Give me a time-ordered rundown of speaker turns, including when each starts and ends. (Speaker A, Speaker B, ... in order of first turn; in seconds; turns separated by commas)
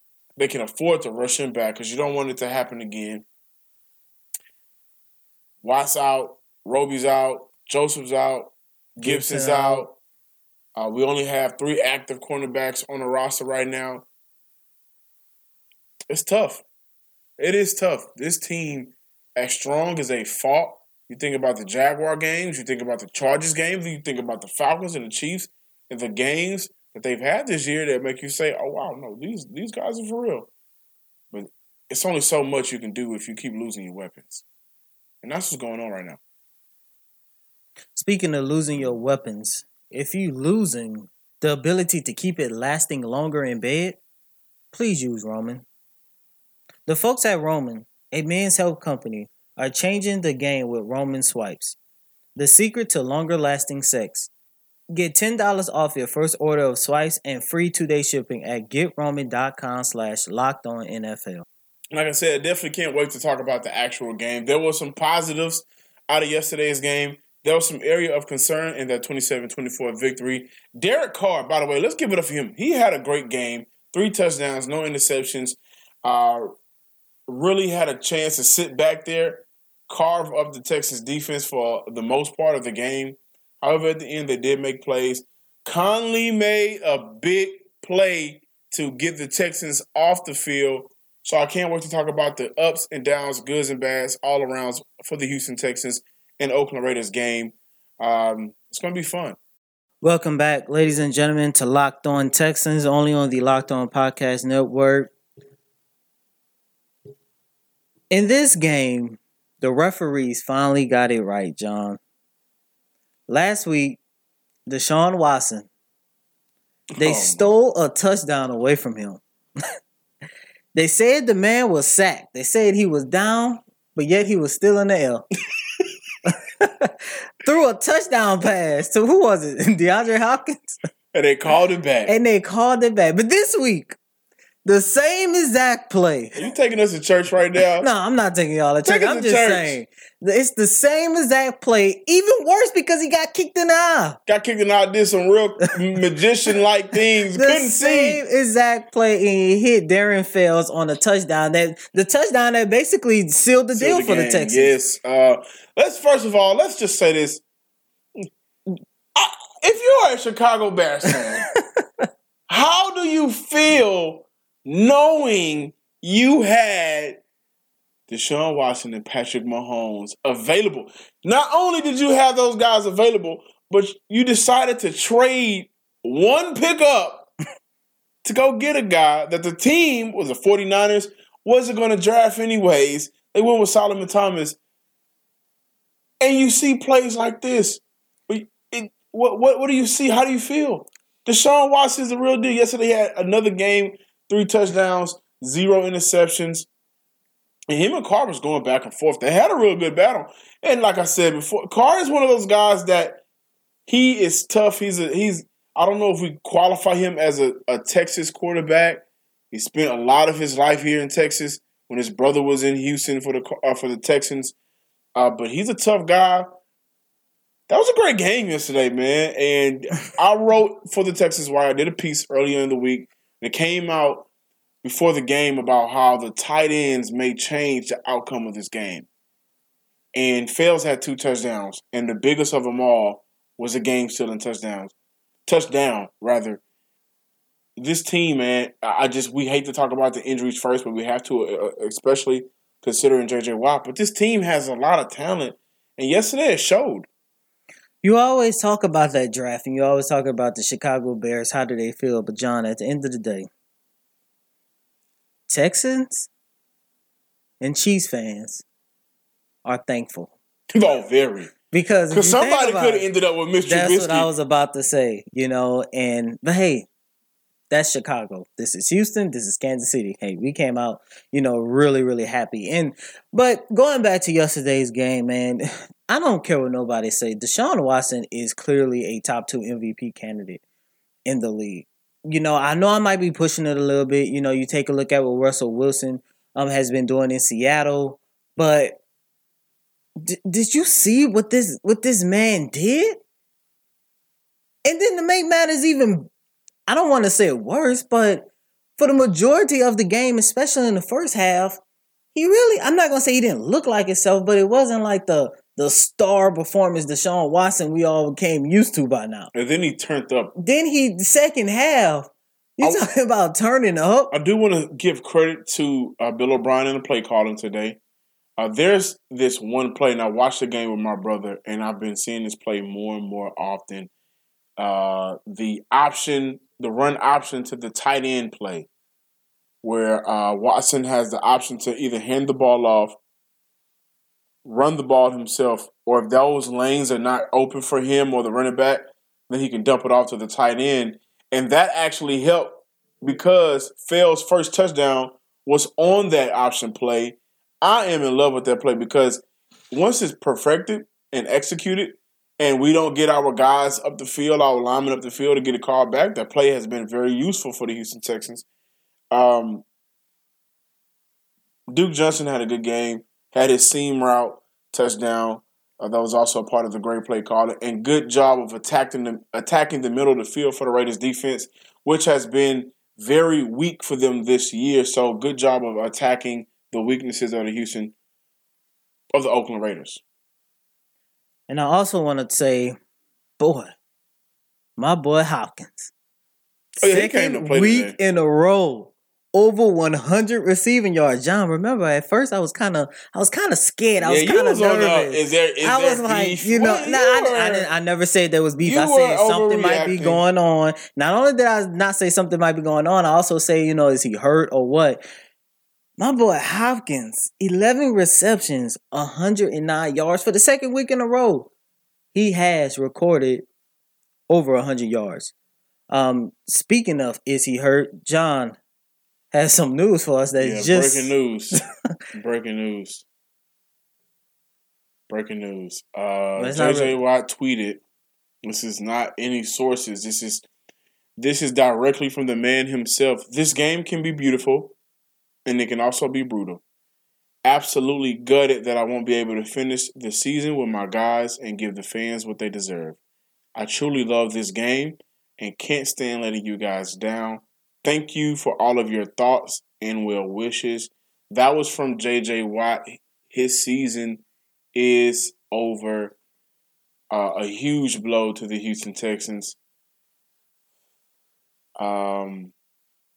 Speaker A: 0.4-3.2, Speaker A: 5.6-10.0, Speaker B: 9.0-9.9, Speaker A: 10.8-14.1, Speaker A: 16.1-16.6, Speaker A: 17.4-30.5, Speaker A: 31.3-34.4, Speaker A: 35.2-36.2, Speaker B: 37.9-44.0, Speaker B: 44.7-45.6, Speaker B: 46.9-51.8, Speaker B: 52.4-54.3, Speaker B: 54.9-61.5, Speaker A: 61.9-76.5, Speaker A: 77.3-99.4, Speaker B: 100.0-105.1, Speaker B: 108.1-112.0, Speaker B: 113.3-114.0, Speaker B: 114.7-115.7, Speaker A: 117.0-117.5, Speaker B: 117.0-119.2, Speaker B: 120.7-125.3, Speaker B: 126.3-130.8, Speaker A: 131.1-132.1, Speaker B: 132.1-134.0, Speaker B: 134.7-136.4, Speaker A: 136.4-137.9, Speaker B: 137.8-144.2, Speaker A: 138.8-139.8, Speaker A: 144.3-148.2, Speaker B: 147.4-154.8, Speaker A: 153.7-157.4, Speaker A: 158.2-161.5, Speaker A: 162.5-167.2, Speaker A: 168.1-177.3, Speaker A: 178.2-184.6, Speaker A: 186.2-196.7, Speaker A: 197.7-203.2, Speaker A: 203.9-214.6, Speaker A: 215.2-216.6, Speaker A: 217.7-224.3, Speaker A: 224.8-229.1, Speaker A: 230.1-234.9, Speaker A: 235.5-236.6, Speaker A: 237.8-247.1, Speaker B: 248.0-253.5, Speaker B: 255.5-256.3, Speaker B: 257.6-258.6, Speaker B: 259.6-260.3, Speaker A: 260.7-261.5, Speaker B: 261.7-263.1, Speaker A: 262.1-264.3, Speaker B: 263.7-266.9, Speaker B: 267.7-280.6, Speaker B: 281.3-289.0, Speaker B: 290.2-293.2, Speaker B: 294.9-296.3, Speaker B: 296.9-298.5, Speaker B: 299.0-301.8, Speaker B: 302.3-309.5, Speaker A: 309.5-310.5, Speaker B: 310.6-314.3, Speaker A: 314.3-318.0, Speaker A: 318.6-324.1, Speaker A: 324.8-328.9, Speaker A: 329.8-333.2, Speaker A: 334.6-358.6, Speaker A: 359.3-359.9, Speaker A: 361.9-378.1, Speaker A: 379.3-380.2, Speaker B: 381.7-383.0, Speaker B: 383.6-383.9, Speaker B: 385.0-386.1, Speaker A: 387.0-388.2, Speaker B: 387.0-405.2, Speaker A: 394.2-397.9, Speaker A: 398.8-400.4, Speaker B: 406.2-411.7, Speaker B: 412.3-413.7, Speaker B: 414.5-415.5, Speaker B: 416.1-418.8, Speaker B: 419.5-421.4, Speaker A: 420.6-421.8, Speaker A: 422.3-423.2, Speaker A: 425.3-428.0, Speaker B: 426.6-427.2, Speaker A: 428.6-430.6, Speaker A: 431.4-434.9, Speaker A: 435.6-436.8, Speaker A: 437.6-443.2, Speaker A: 443.8-454.4, Speaker A: 454.9-456.4, Speaker A: 457.3-459.8, Speaker A: 462.0-462.7